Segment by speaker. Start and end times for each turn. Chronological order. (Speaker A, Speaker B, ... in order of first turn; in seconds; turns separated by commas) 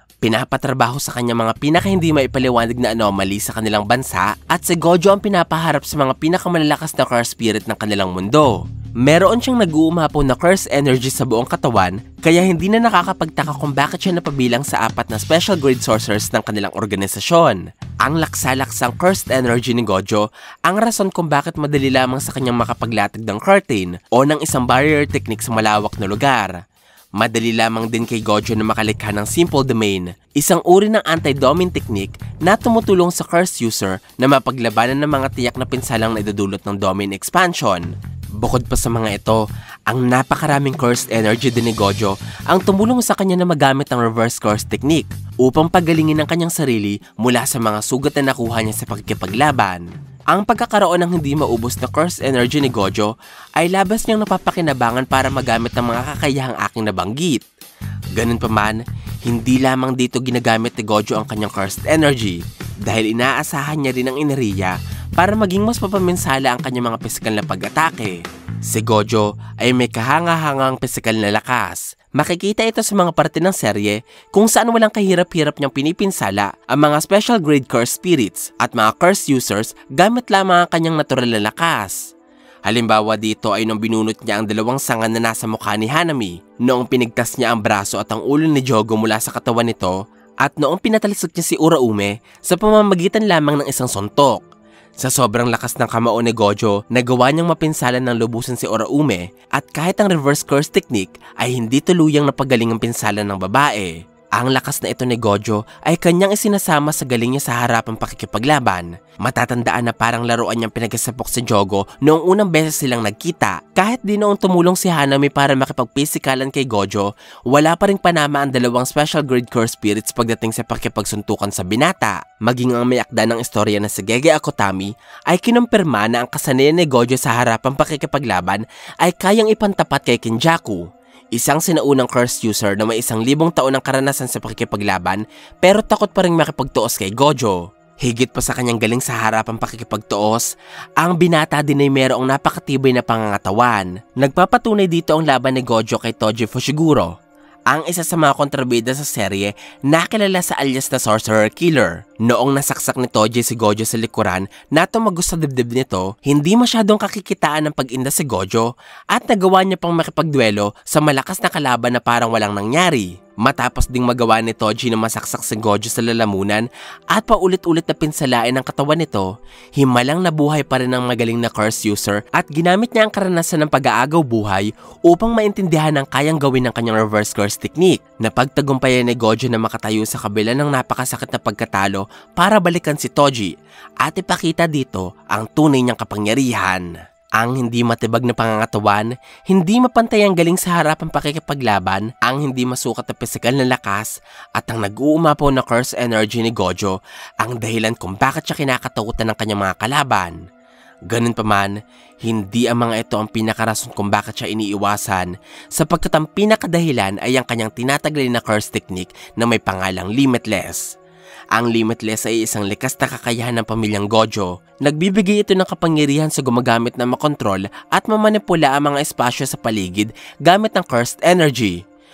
Speaker A: 0.2-26.6, Speaker A: 27.2-57.5, Speaker A: 58.1-82.1, Speaker A: 82.7-94.4, Speaker A: 95.0-147.1, Speaker A: 147.7-200.4, Speaker A: 201.1-211.0, Speaker A: 211.5-221.8